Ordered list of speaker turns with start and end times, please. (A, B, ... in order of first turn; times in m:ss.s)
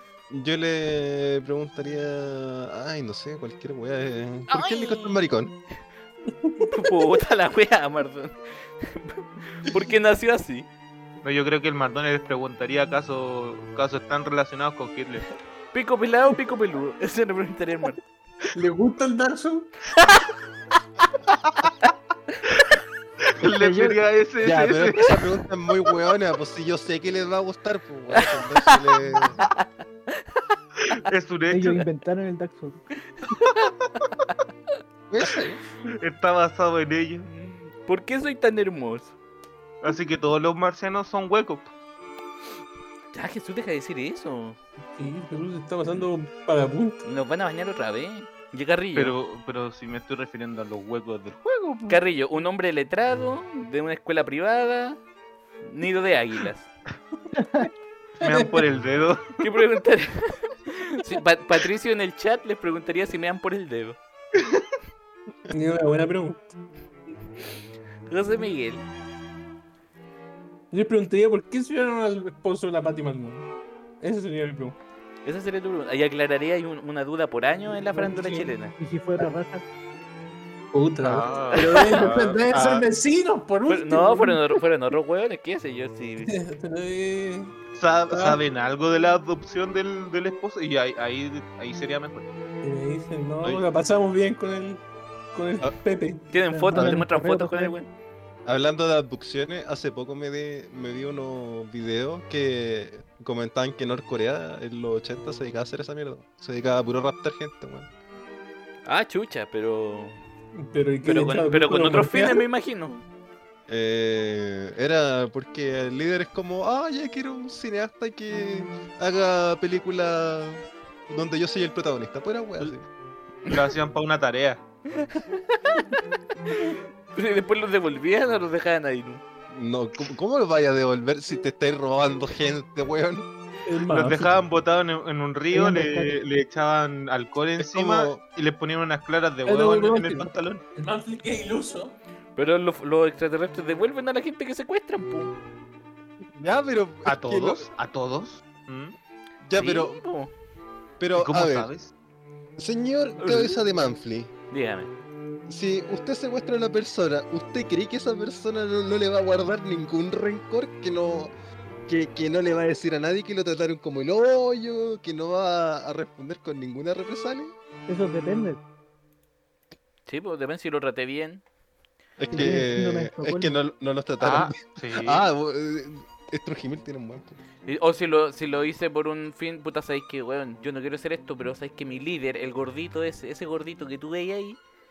0:00.3-0:05.5 A
0:04.5-0:05.2 B
0:06.3-0:07.0 C
0:06.6-0:10.7 B
0:11.2-0:15.3 D
0:15.7-0:18.0 B
0:18.5-0:19.7 C
0:19.9-0:20.3 B
0:21.4-0:21.7 D
0:23.4-0:25.3 D
0:23.6-0:24.0 E
0:24.4-0:29.4 A
0:28.2-0:28.8 B
0:29.4-0:30.4 B
0:30.8-0:31.9 D
0:31.5-0:32.8 E
0:33.3-0:33.7 B
0:35.1-0:35.6 A
0:35.9-0:37.3 D
0:37.3-0:39.2 B
0:39.8-0:41.7 D
0:43.1-0:44.6 B
0:44.9-0:47.0 C
0:47.0-0:49.2 B
0:49.0-0:52.0 D
0:51.9-0:55.0 B
0:55.6-0:56.7 B
0:57.3-0:57.7 E
0:58.2-0:58.6 C
0:58.2-0:59.4 D
0:59.4-1:04.0 B
1:04.4-1:04.6 D
1:05.5-1:06.5 C
1:08.1-1:08.9 B
1:10.7-1:14.8 C
1:15.2-1:18.7 B
1:18.0-1:18.5 C
1:18.7-1:19.6 E
1:20.7-1:24.6 C
1:21.0-1:22.9 D
1:23.7-1:26.4 B
1:26.2-1:27.5 C
1:27.8-1:32.3 D
1:28.1-1:28.4 C
1:32.6-1:36.8 C
1:36.3-1:37.9 B
1:36.5-1:37.8 E
1:38.5-1:47.9 A
1:48.9-1:50.2 B
1:50.6-1:52.4 C
1:51.0-1:53.0 B
1:53.7-2:02.8 A
2:03.5-2:04.6 D
2:05.0-2:05.9 B
2:06.5-2:09.2 B
2:09.5-2:13.3 A
2:13.7-2:14.3 C
2:13.9-2:20.6 D
2:15.5-2:16.0 E
2:17.6-2:18.2 A
2:19.5-2:22.0 C
2:22.4-2:25.3 B
2:26.4-2:27.7 A
2:27.1-2:29.0 D
2:29.4-2:30.0 A
2:29.6-2:30.3 B
2:31.0-2:31.7 A
2:31.2-2:31.9 D
2:32.6-2:34.3 A
2:33.2-2:33.6 B
2:34.5-2:34.9 B
2:35.5-2:41.3 A
2:41.9-2:47.5 A
2:47.9-2:48.6 E
2:50.1-2:51.4 B
2:52.2-2:57.4 A
2:52.3-2:53.6 E
2:54.2-2:55.2 D
2:57.7-3:04.6 B